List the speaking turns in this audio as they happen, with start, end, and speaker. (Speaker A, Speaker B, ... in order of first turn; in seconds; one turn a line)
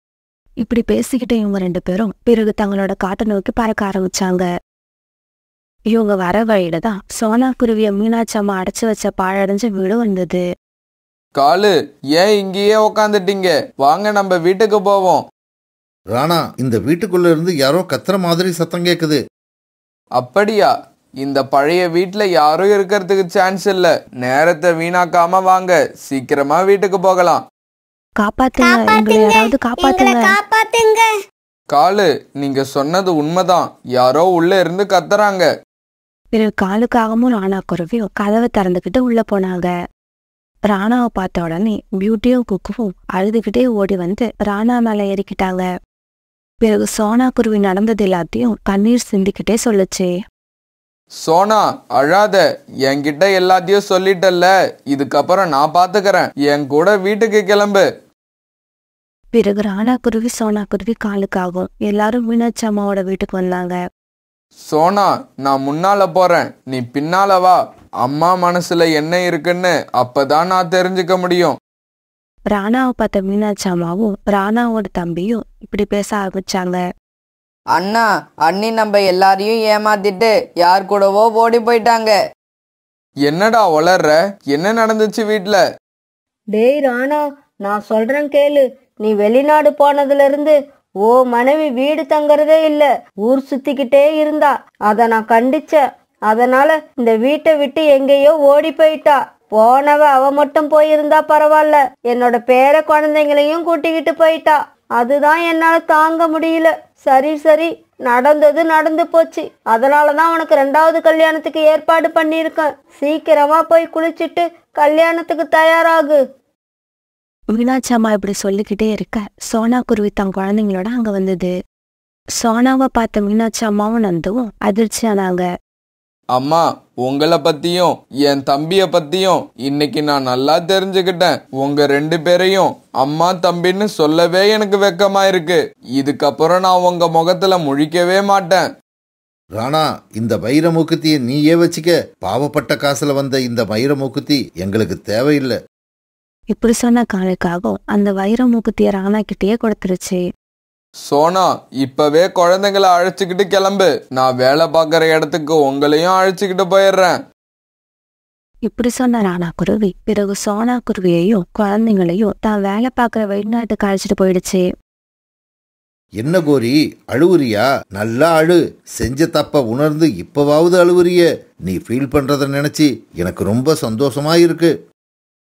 Speaker A: 0.6-4.5
Speaker A: 5.9-10.4
Speaker B: 11.4-15.2
Speaker C: 16.1-19.2
Speaker B: 20.2-27.4
Speaker A: 28.2-30.4
Speaker D: 28.6-31.0
Speaker B: 31.7-35.5
Speaker A: 36.3-39.7
Speaker A: 40.7-45.7
Speaker A: 46.6-50.1
Speaker B: 51.2-57.8
Speaker A: 59.3-63.8
Speaker B: 64.7-71.6
Speaker A: 72.5-76.8
Speaker E: 77.7-82.1
Speaker B: 83.2-85.6
Speaker F: 86.5-116.2
Speaker A: 117.5-121.5
Speaker A: 122.4-125.5
Speaker B: 126.3-138.7
Speaker C: 139.6-145.6
Speaker A: 146.5-150.2
Speaker B: 151.1-157.2
Speaker A: 158.7-164.7
Speaker C: 166.2-174.7